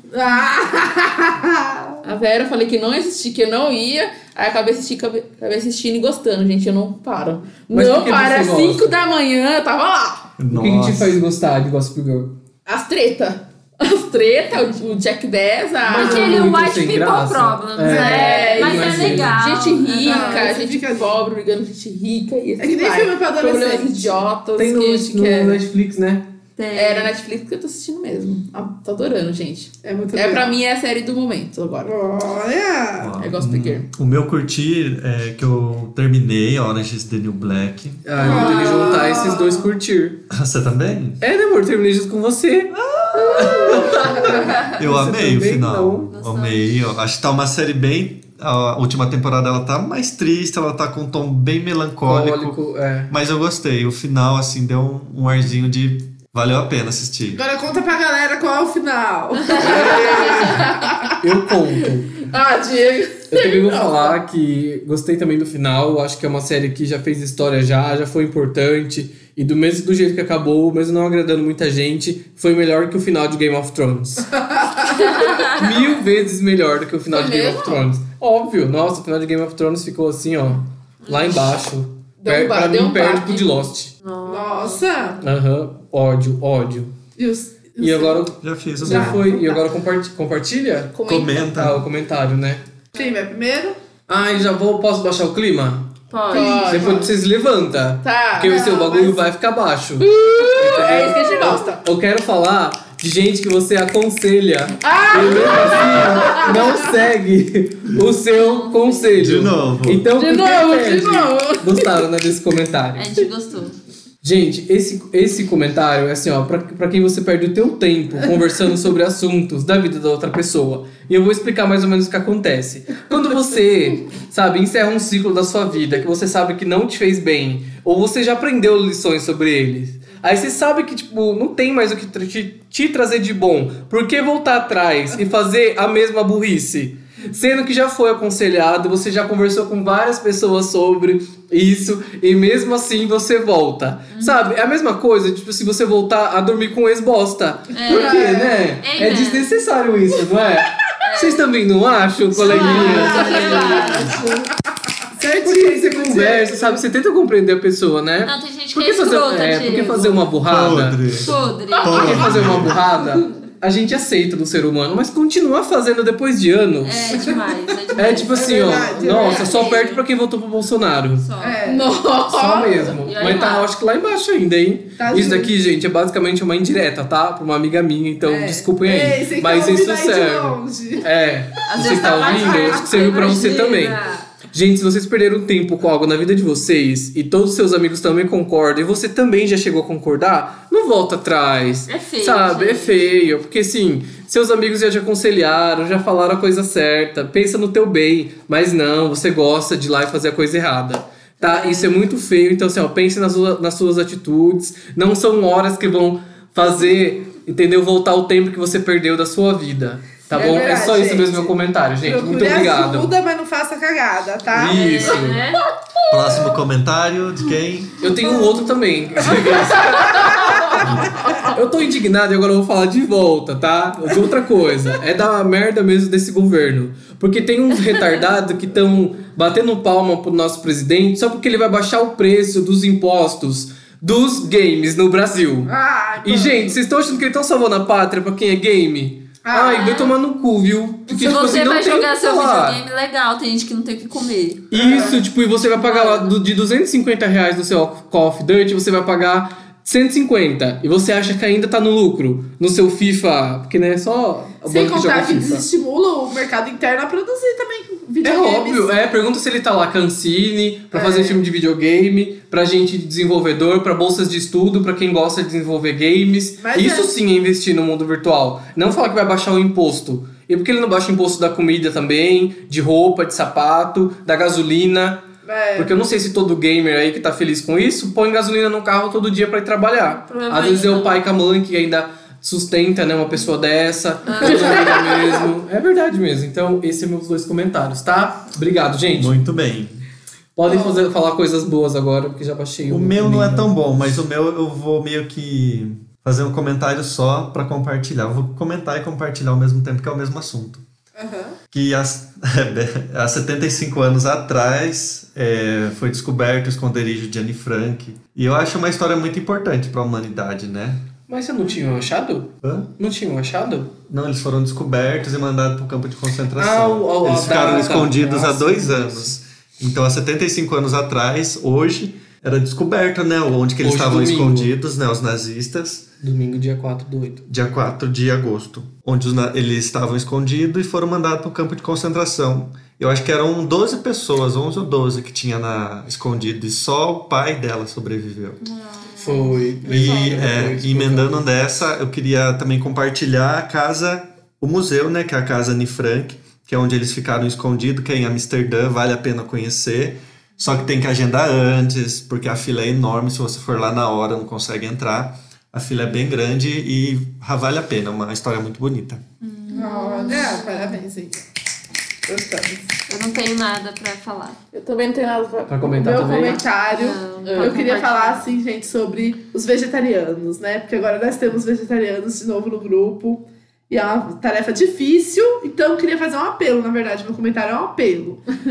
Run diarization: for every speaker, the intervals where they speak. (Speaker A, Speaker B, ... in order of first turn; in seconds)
Speaker A: 0.1-2.0, 15.9-16.5, 17.8-19.3, 20.0-21.2, 22.6-24.2, 29.8-30.6, 31.8-33.2, 38.2-39.7, 57.4-61.0, 74.4-75.2, 84.3-85.2, 87.2-88.3, 88.8-89.4, 92.9-93.8, 96.3-97.1, 98.5-98.9, 100.4-101.8, 104.9-106.8, 110.2-111.4, 147.9-148.8, 152.5-154.5, 155.2-156.8, 167.1-167.5, 168.1-169.6, 171.4-172.0, 175.0-175.5, 178.2-183.4, 210.3-215.2, 235.7-236.8, 239.4-240.1, 241.3-241.6, 244.7-245.2, 254.7-258.9, 260.9-261.4, 266.6-267.1, 275.4-275.9, 284.4-285.5, 290.7-291.0, 301.1-301.6, 359.7-361.4, 362.3-362.9, 365.9-378.4
Speaker B: 2.0-10.3, 12.7-16.5, 17.9-25.6, 26.7-32.0, 33.2-33.9, 59.6-61.1, 62.1-64.2, 77.1-77.9, 82.2-83.6, 91.0-91.5, 96.1-97.1, 98.0-99.2, 100.0-101.8, 104.9-106.7, 110.2-111.6, 152.6-154.2, 169.2-169.5, 171.7-173.1, 360.2-360.5, 364.7-366.5, 367.4-367.9
Speaker C: 7.7-9.0, 10.5-12.4, 15.9-19.4, 24.6-26.3, 38.0-40.2, 41.2-46.1, 52.1-53.1, 59.6-60.2, 61.2-62.2, 63.3-74.3, 75.4-83.9, 85.2-87.0, 87.8-92.6, 94.1-95.9, 96.6-113.2, 114.2-154.2, 155.1-161.0, 161.8-167.4, 168.0-171.3, 172.3-213.1, 214.5-215.4, 218.0-220.3, 221.3-242.8, 244.7-255.7, 258.2-289.4, 290.6-293.7, 311.3-313.9, 316.6-319.4, 323.8-324.7, 326.2-327.5, 339.2-341.4, 365.7-366.6
Speaker D: 10.4-11.2, 33.0-38.0, 40.3-41.2, 42.7-57.4, 88.4-89.2, 91.1-91.9, 109.2-110.1, 160.4-162.8, 216.1-218.1, 220.8-221.2, 289.1-290.0, 292.9-300.8, 301.7-311.0, 312.6-312.9, 314.1-326.1, 327.5-338.6, 339.8-359.2
Speaker E: 15.9-20.6, 26.6-27.1, 38.2-39.4, 46.1-46.7, 75.0-75.9, 81.1-81.5, 84.0-85.2, 96.1-96.7, 108.3-109.2, 113.0-113.8, 144.1-144.4, 147.7-149.5, 151.0-151.5, 152.3-154.2, 158.2-160.2, 161.2-162.4, 166.8-170.1, 171.2-171.6, 173.0-173.7, 181.7-184.3, 191.9-193.1, 201.4-202.0, 214.6-215.6, 220.0-220.3, 239.7-240.1, 241.1-245.2, 245.8-246.3, 280.2-281.2, 284.3-285.1, 338.6-340.5, 359.4-361.0, 363.1-364.6, 366.9-368.5